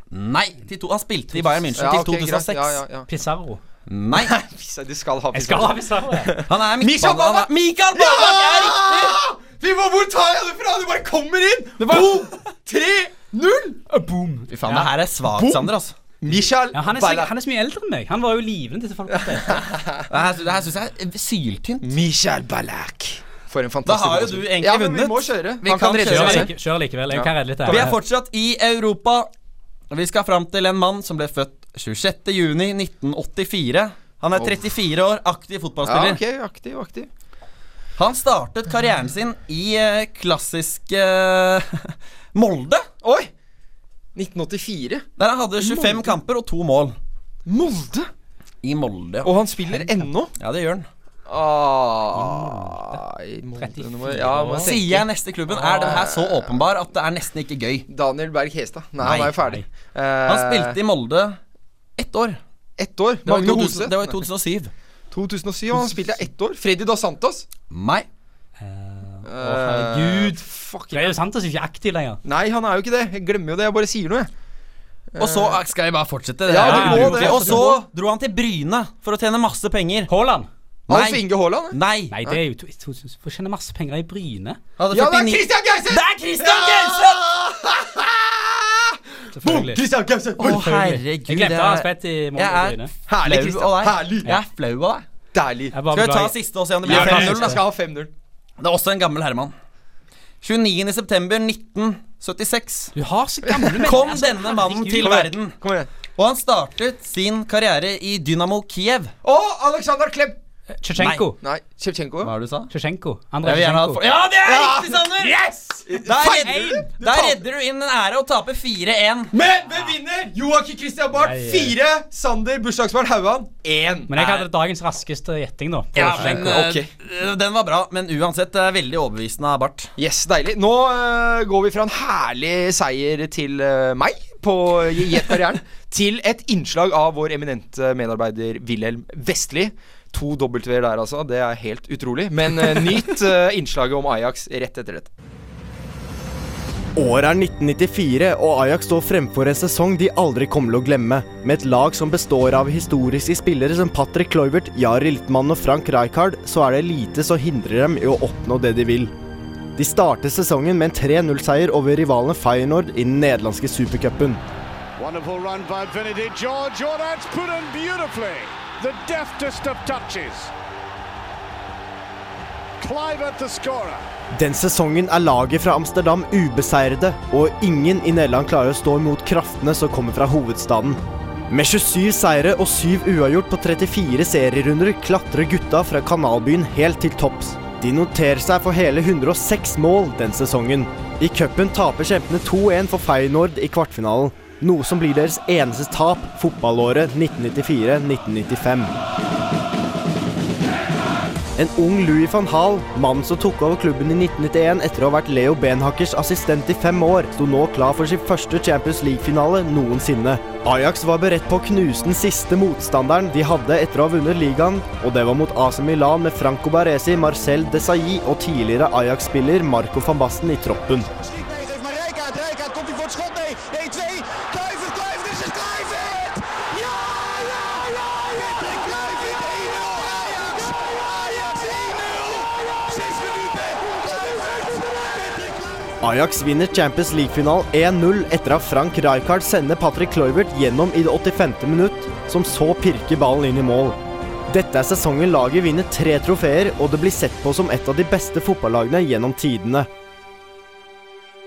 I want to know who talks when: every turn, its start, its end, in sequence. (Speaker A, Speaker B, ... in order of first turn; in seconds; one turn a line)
Speaker A: 0.1-2.8
Speaker B: 1.7-3.1
Speaker C: 3.1-3.6
Speaker A: 3.9-4.3
Speaker B: 4.2-14.4
Speaker C: 5.3-6.3
Speaker A: 6.5-9.2
Speaker A: 11.8-12.2
Speaker A: 14.5-15.9
Speaker C: 14.6-14.9
Speaker B: 15.3-15.7
Speaker B: 16.2-17.3
Speaker C: 16.7-19.6
Speaker B: 19.3-20.1
Speaker A: 20.1-21.9
Speaker B: 21.8-26.5
Speaker A: 23.9-26.5
Speaker C: 26.0-27.9
Speaker B: 27.1-27.9
Speaker A: 27.7-29.3
Speaker A: 29.9-36.2
Speaker B: 34.3-34.6
Speaker B: 35.8-37.1
Speaker A: 38.0-42.9
Speaker B: 43.0-43.3
Speaker B: 44.1-45.1
Speaker A: 45.2-47.0
Speaker B: 45.6-46.1
Speaker B: 47.5-48.1
Speaker A: 48.6-49.3
Speaker B: 49.2-50.3
Speaker A: 50.4-50.9
Speaker B: 51.3-55.0
Speaker C: 52.1-53.0
Speaker C: 53.6-54.7
Speaker A: 54.6-57.9
Speaker B: 55.6-56.6
Speaker B: 57.9-60.8
Speaker A: 59.0-59.5
Speaker C: 59.4-59.6
Speaker A: 60.2-61.4
Speaker A: 62.0-62.4
Speaker B: 62.8-64.2
Speaker A: 63.2-64.7
Speaker B: 65.1-67.5
Speaker A: 67.7-68.1
Speaker C: 68.6-70.4
Speaker B: 69.2-71.1
Speaker C: 70.9-72.2
Speaker B: 72.2-74.3
Speaker B: 75.1-75.6
Speaker A: 75.2-80.1
Speaker B: 76.5-77.8
Speaker C: 76.6-77.6
Speaker C: 80.1-80.5
Speaker B: 80.9-82.4
Speaker A: 80.9-82.1
Speaker C: 82.1-84.6
Speaker A: 84.8-87.3
Speaker B: 84.9-91.0
Speaker C: 89.3-89.8
Speaker A: 90.4-95.0
Speaker C: 91.2-92.9
Speaker B: 93.1-94.4
Speaker B: 95.3-95.8
Speaker C: 95.7-97.6
Speaker A: 95.9-97.6
Speaker B: 96.8-98.1
Speaker A: 98.6-99.5
Speaker A: 100.4-102.9
Speaker C: 102.9-105.2
Speaker B: 103.5-104.0
Speaker A: 103.8-105.6
Speaker B: 105.0-105.9
Speaker A: 106.2-109.1
Speaker B: 109.2-110.4
Speaker C: 110.8-111.4
Speaker A: 111.0-111.2
Speaker B: 111.4-112.3
Speaker A: 112.2-112.7
Speaker C: 112.7-114.0
Speaker A: 113.4-115.4
Speaker B: 114.4-117.4
Speaker A: 116.0-119.3
Speaker C: 116.4-116.9
Speaker B: 119.3-124.2
Speaker C: 121.1-121.7
Speaker C: 124.1-126.5
Speaker A: 124.2-124.4
Speaker A: 125.9-129.9
Speaker B: 126.1-126.9
Speaker B: 130.0-145.1
Speaker D: 146.9-159.1
Speaker D: 159.8-164.4
Speaker E: 165.0-170.5
Speaker E: 172.8-174.0
Speaker D: 174.3-198.9
Speaker D: 201.6-221.1
Speaker E: 221.2-236.0
Speaker D: 236.0-244.0
Speaker D: 244.5-249.9